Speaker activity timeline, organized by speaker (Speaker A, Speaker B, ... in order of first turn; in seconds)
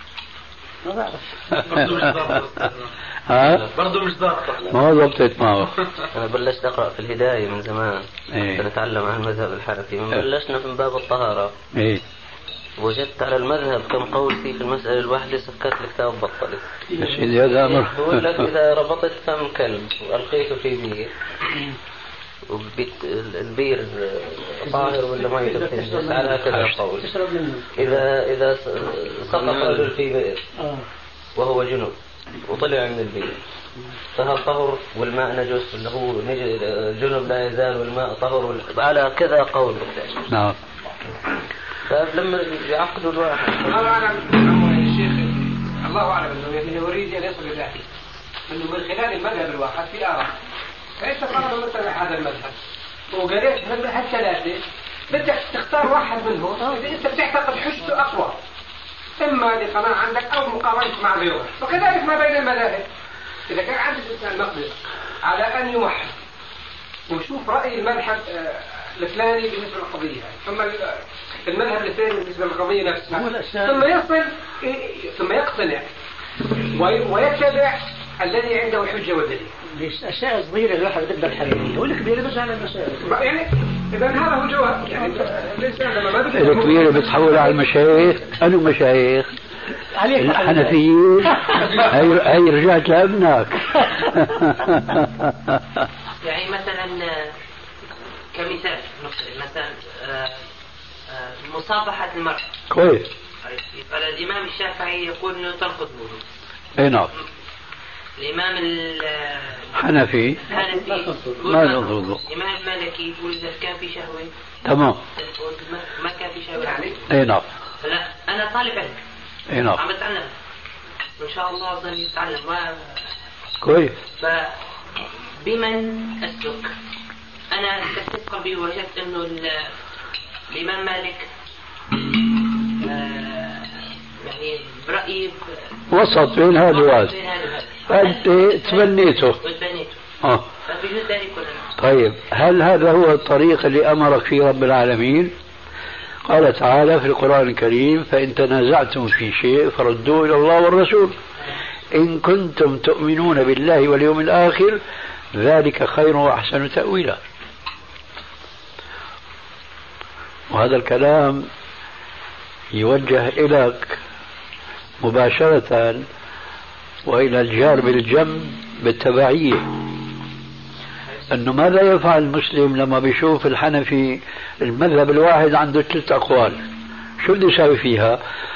Speaker A: 0.8-1.2, 16.9-17.2, 24.7-27.7, 30.6-30.9, 73.1-73.9, 79.7-83.2, 89.9-90.8, 91.3-91.6, 110.5-111.4
Speaker B: 1.5-2.1, 3.3-3.7, 4.7-5.7, 8.3-8.6, 11.7-12.0, 17.0-18.3, 40.3-40.6, 86.3-89.3, 90.2-95.8, 102.7-103.1, 106.8-107.1, 109.7-110.4, 111.4-112.2, 114.7-115.0, 117.1-117.5, 119.5-119.8, 123.6-124.0, 135.9-137.1, 137.9-139.4, 141.8-145.3, 146.2-151.2, 151.9-154.8, 155.3-157.2, 160.5-161.5, 162.7-164.0, 165.0-166.1, 167.1-169.7, 171.3-176.6, 177.2-178.2
Speaker C: 1.7-2.9, 3.7-4.5
Speaker D: 6.2-8.0, 8.5-11.5, 12.8-16.7, 17.5-21.1, 22.5-27.1, 27.7-30.4, 31.4-31.9, 32.5-33.4, 34.1-40.2, 41.9-43.8
Speaker E: 43.6-47.9, 48.5-50.3, 51.0-52.6, 53.1-58.4, 59.2-62.9, 63.5-66.1, 67.1-75.9, 76.7-79.5, 83.0-87.6, 116.6-117.0
Speaker F: 96.2-97.3, 98.3-100.4, 101.1-102.5, 103.5-106.2, 108.2-109.8, 110.4-114.3, 115.2-117.1, 117.8-119.0, 119.8-120.3, 121.2-123.1, 124.2-124.6, 125.4-126.7, 127.5-129.7, 130.5-131.3, 132.8-135.4, 136.6-140.0, 140.7-141.8